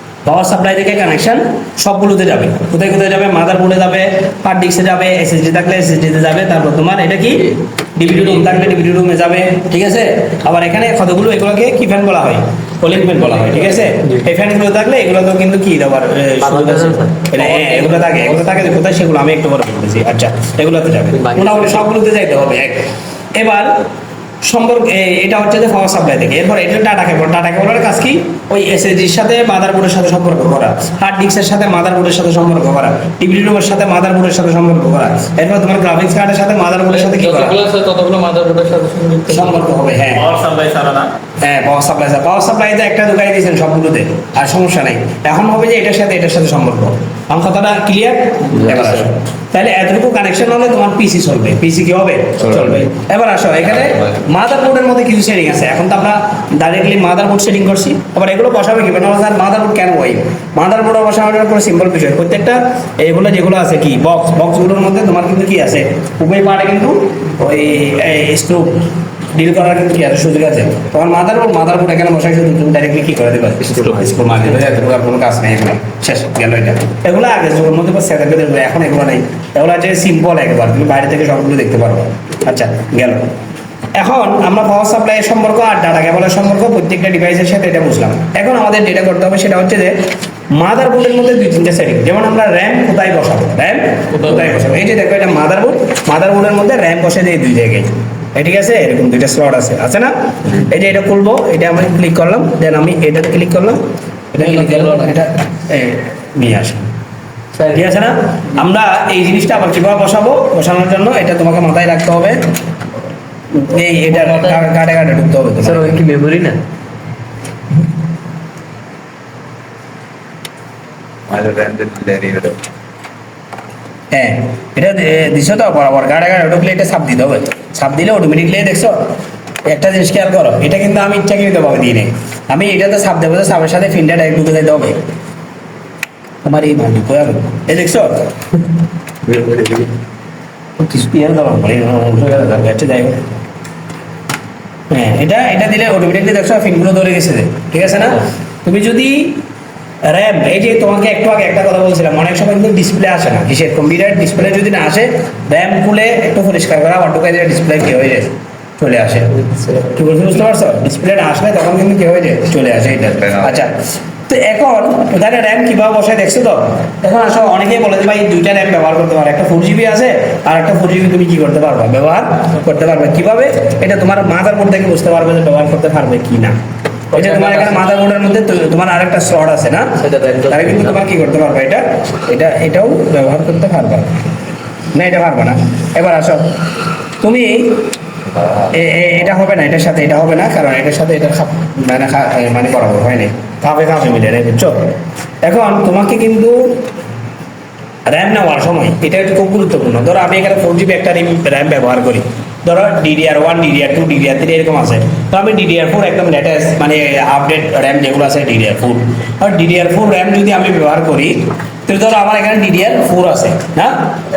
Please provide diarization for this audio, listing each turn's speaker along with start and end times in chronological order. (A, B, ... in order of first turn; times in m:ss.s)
0:00.2-0:23.8 A
0:08.1-0:08.6 B
0:16.4-0:18.7 B
0:21.1-0:21.8 B
0:24.4-0:37.6 A
0:36.9-0:39.6 B
0:39.3-0:40.3 A
0:40.2-0:41.1 C
0:41.4-1:23.3 A
0:48.5-0:49.1 C
0:52.4-0:52.8 C
0:53.7-0:54.2 C
1:13.6-1:14.4 C
1:23.9-1:30.0 A
1:30.5-1:43.8 A
1:44.3-1:46.9 A
1:44.4-1:45.2 B
1:47.6-1:47.8 B
1:47.7-1:52.4 A
1:53.5-1:56.0 A
1:54.1-1:54.6 B
1:55.6-1:56.6 B
2:01.3-2:02.6 C
2:04.1-2:09.1 A
2:09.7-2:15.0 A
2:16.4-2:18.3 A
2:20.8-2:23.2 A
2:24.9-2:29.4 A
2:30.1-2:43.7 A
2:39.4-2:39.9 B
2:43.2-2:43.5 C
2:44.3-2:56.6 A
2:57.1-2:57.9 B
2:57.1-2:59.9 A
3:00.0-3:00.9 B
3:00.5-3:04.2 A
3:04.9-3:06.5 A
3:07.2-3:07.8 A
3:08.4-3:08.7 C
3:08.7-3:14.9 A
3:15.4-3:16.8 A
3:18.1-3:33.9 A